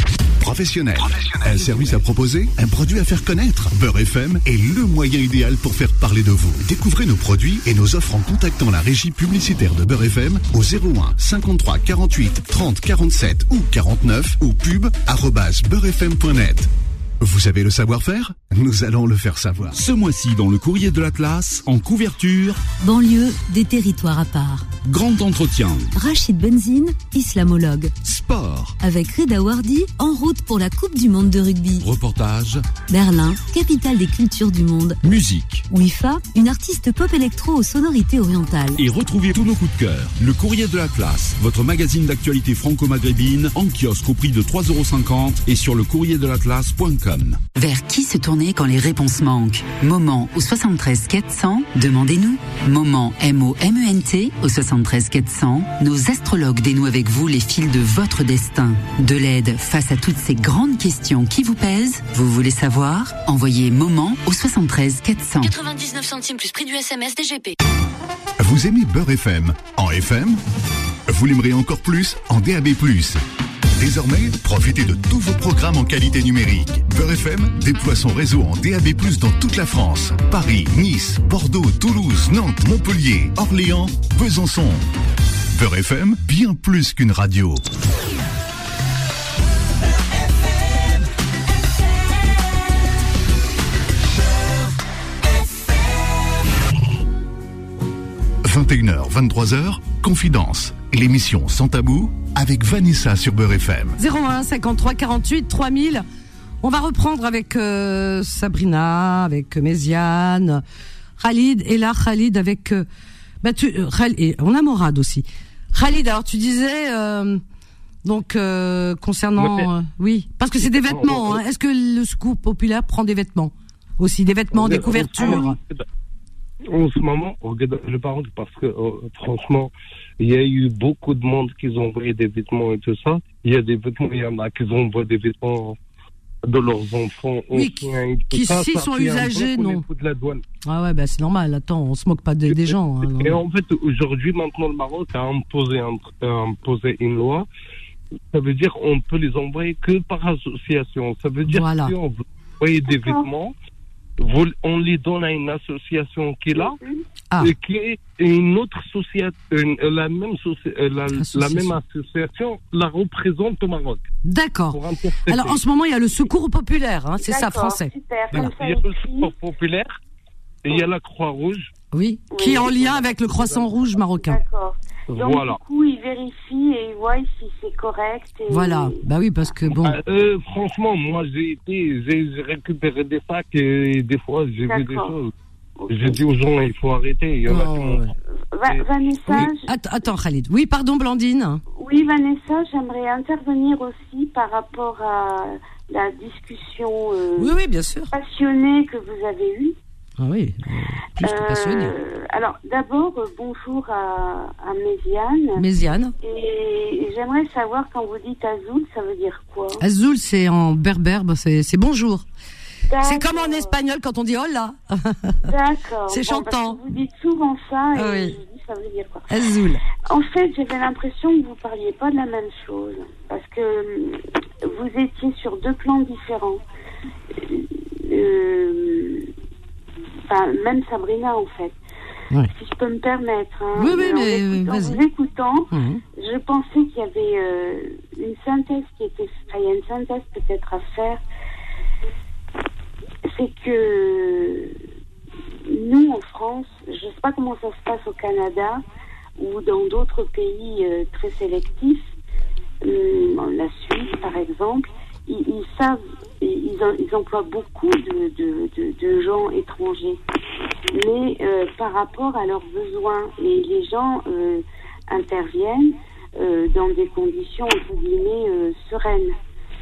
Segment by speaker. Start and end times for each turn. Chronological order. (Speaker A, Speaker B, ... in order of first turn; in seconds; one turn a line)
Speaker A: 0.4-19.8
Speaker B: 19.7-22.6
Speaker C: 22.8-24.7
Speaker B: 24.8-25.9
Speaker C: 26.0-27.9
Speaker B: 28.0-28.8
Speaker C: 28.8-31.9
Speaker B: 31.8-32.6
Speaker C: 32.9-35.0
Speaker B: 35.0-35.6
Speaker C: 35.7-38.8
Speaker B: 38.8-47.5
Speaker D: 47.5-65.5
Speaker E: 65.4-67.5
Speaker A: 68.4-70.4
Speaker A: 71.1-73.2
Speaker A: 73.8-84.8
Speaker A: 85.5-87.6
Speaker A: 98.4-104.0
Speaker F: 104.0-106.0
Speaker F: 106.6-110.6
Speaker F: 111.2-112.9
Speaker F: 113.4-117.4
Speaker F: 118.0-125.6
Speaker G: 119.3-119.7
Speaker G: 120.6-121.4
Speaker G: 124.5-125.8
Speaker G: 126.7-135.8
Speaker G: 136.5-140.4
Speaker F: 137.5-139.8
Speaker F: 140.6-143.4
Speaker G: 142.5-147.5
Speaker G: 148.3-153.6
Speaker F: 151.5-151.9
Speaker H: 152.8-153.3
Speaker G: 154.2-156.8
Speaker H: 156.6-157.0
Speaker G: 157.4-164.1
Speaker F: 161.1-161.8
Speaker F: 164.2-168.5
Speaker G: 164.7-165.6
Speaker H: 167.2-169.3
Speaker G: 168.3-169.9
Speaker G: 170.6-171.7
Speaker F: 171.9-174.4
Speaker H: 172.3-172.8
Speaker G: 172.5-173.8
Speaker H: 174.2-179.0
Speaker G: 175.1-175.6
Speaker F: 178.5-180.0
Speaker G: 179.8-185.3
Speaker H: 184.6-185.2
Speaker H: 185.8-186.2
Speaker G: 185.9-188.1
Speaker F: 187.5-188.1
Speaker H: 188.5-189.7
Speaker F: 189.3-191.6
Speaker H: 191.8-197.5
Speaker F: 197.4-198.1
Speaker H: 198.1-199.7
Speaker F: 200.2-201.9
Speaker H: 201.2-205.6
Speaker F: 205.6-206.1
Speaker H: 206.2-209.8
Speaker F: 209.8-212.2
Speaker H: 212.9-213.7
Speaker F: 213.0-215.4
Speaker H: 215.4-219.3
Speaker F: 216.1-216.8
Speaker F: 217.9-218.4
Speaker F: 219.3-219.8
Speaker H: 220.1-226.6
Speaker H: 227.4-229.3
Speaker H: 230.3-231.8
Speaker H: 232.4-241.2
Speaker F: 233.8-235.0
Speaker F: 235.7-236.0
Speaker H: 243.2-244.8
Speaker H: 245.7-248.8
Speaker H: 249.4-252.0
Speaker H: 252.8-260.2
Speaker H: 260.9-269.4